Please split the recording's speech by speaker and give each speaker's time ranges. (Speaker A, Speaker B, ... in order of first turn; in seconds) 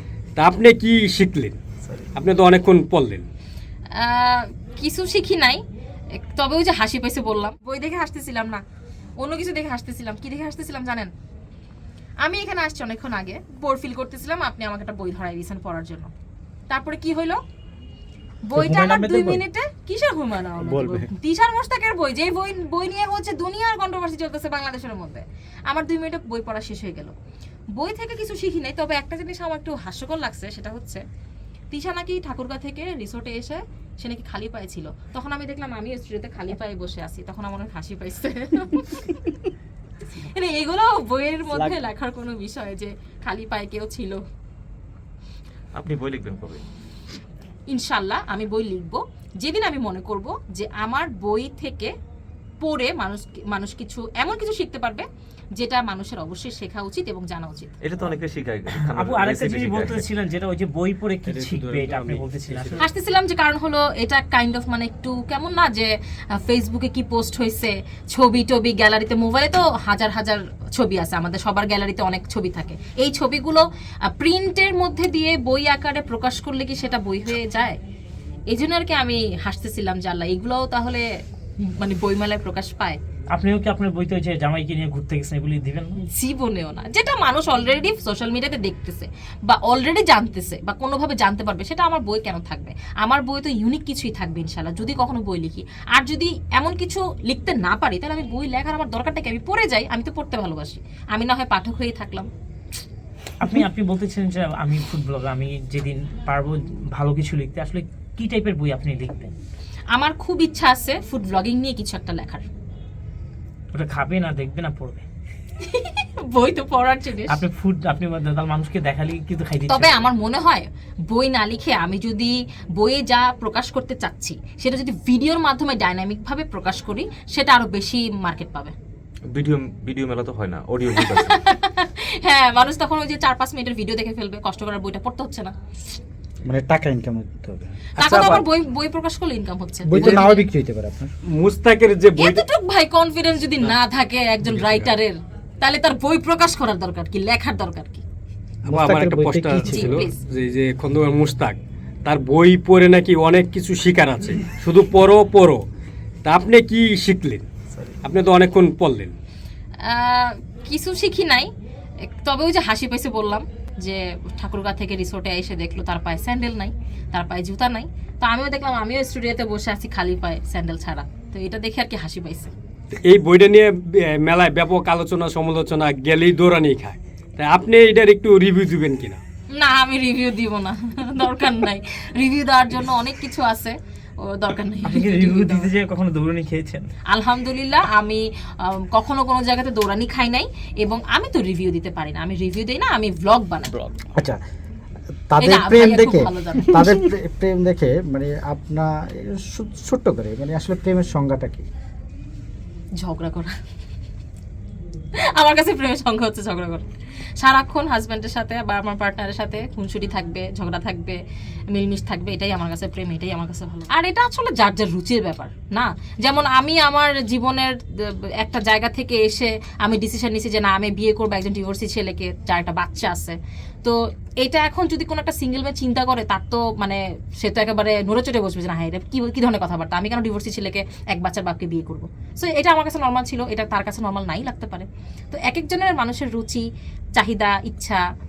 Speaker A: 0.4-1.6, 2.1-3.3, 138.0-138.4, 139.9-140.4, 141.3-142.4, 144.5-144.9, 148.7-155.7, 156.2-157.5, 158.0-159.2, 172.9-179.2
Speaker B: 4.0-5.6, 6.2-8.6, 9.2-11.1, 12.2-16.1, 16.7-17.4, 18.4-27.1, 27.8-31.0, 31.7-39.4, 40.1-44.2, 47.7-51.9, 52.6-55.0, 55.6-57.7, 62.8-65.9, 66.5-77.8, 78.5-81.0, 81.8-83.0, 86.1-102.3, 109.9-112.5, 115.6-117.4, 119.7-128.7, 131.0-135.5, 138.0-140.4, 142.2-148.0, 149.6-150.2, 159.8-161.5, 162.1-172.5, 179.6-185.7, 187.1-193.8, 195.4-197.0, 203.0-203.5, 205.3-206.9, 207.4-211.2, 211.7-236.6, 237.2-238.0
Speaker C: 18.6-19.4, 20.6-21.1, 58.7-62.8, 83.3-86.0, 103.4-109.3, 113.7-115.0, 117.3-120.1, 184.8-186.9
Speaker D: 45.7-46.6, 57.8-60.1, 61.3-62.8, 129.3-131.4
Speaker E: 136.4-137.8, 139.8-141.1, 148.7-150.1, 195.3-201.7